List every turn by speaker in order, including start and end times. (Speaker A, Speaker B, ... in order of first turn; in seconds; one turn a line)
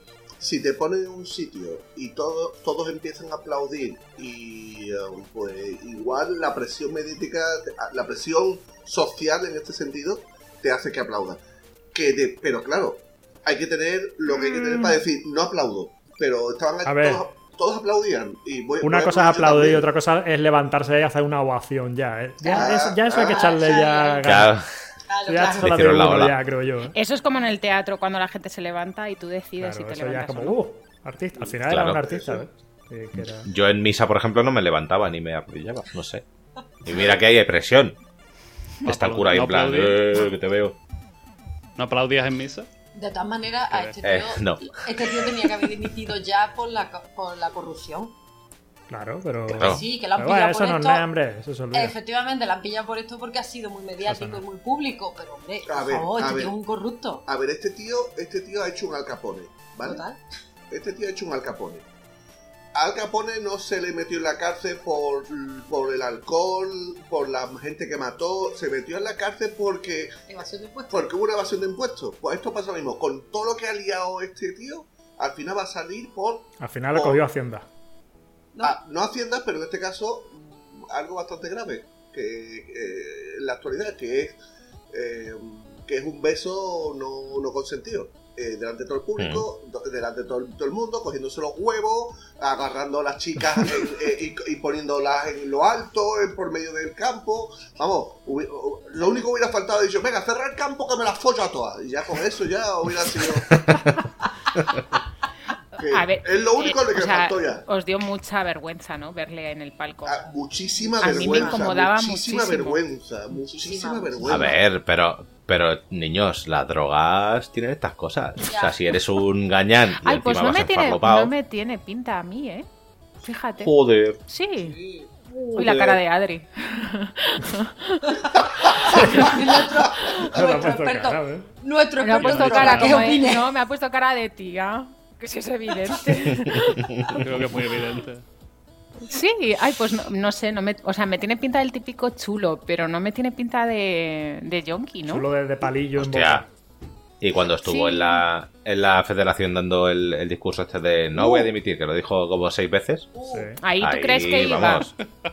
Speaker A: 0.4-11.4
Speaker A: 11.9-19.9
Speaker B: 16.8-17.2
Speaker B: 18.8-24.5
Speaker C: 22.4-24.3
Speaker A: 22.5-23.8
Speaker D: 24.2-24.7
Speaker C: 25.1-25.8
Speaker B: 25.2-26.9
Speaker D: 25.6-26.4
Speaker E: 26.9-30.6
Speaker B: 29.6-33.5
Speaker D: 31.7-32.0
Speaker A: 32.1-32.5
Speaker D: 33.2-36.2
Speaker D: 36.8-38.0
Speaker F: 38.9-40.2
Speaker D: 38.9-40.8
Speaker F: 41.8-42.7
Speaker C: 42.9-48.1
Speaker D: 44.0-44.9
Speaker B: 48.9-52.0
Speaker D: 49.5-49.8
Speaker C: 49.5-51.1
Speaker C: 51.7-57.2
Speaker B: 54.0-54.4
Speaker A: 55.6-56.5
Speaker A: 57.2-60.0
Speaker C: 59.8-60.2
Speaker A: 60.7-61.8
Speaker A: 62.7-70.2
Speaker C: 70.3-71.1
Speaker A: 70.9-77.2
Speaker B: 76.6-77.6
Speaker A: 78.6-84.4
Speaker A: 84.9-103.6
Speaker D: 89.2-89.5
Speaker D: 103.5-103.8
Speaker A: 105.8-107.6
Speaker E: 105.8-110.3
Speaker A: 110.0-114.6
Speaker C: 110.8-111.7
Speaker E: 111.0-112.8
Speaker C: 113.4-114.5
Speaker D: 114.2-121.3
Speaker C: 118.4-118.8
Speaker E: 120.0-122.7
Speaker E: 123.2-123.7
Speaker D: 123.6-124.2
Speaker E: 124.3-124.8
Speaker C: 124.8-125.5
Speaker E: 125.5-128.2
Speaker D: 125.5-126.0
Speaker B: 129.0-129.3
Speaker C: 129.2-133.4
Speaker B: 130.3-131.5
Speaker E: 132.0-136.8
Speaker F: 132.2-133.0
Speaker D: 136.5-137.2
Speaker F: 137.2-138.2
Speaker E: 139.1-145.2
Speaker B: 145.1-146.4
Speaker D: 146.0-146.4
Speaker D: 147.2-153.1
Speaker E: 147.6-148.2
Speaker C: 153.1-153.5
Speaker B: 153.2-153.6
Speaker E: 153.6-154.9
Speaker D: 153.8-154.9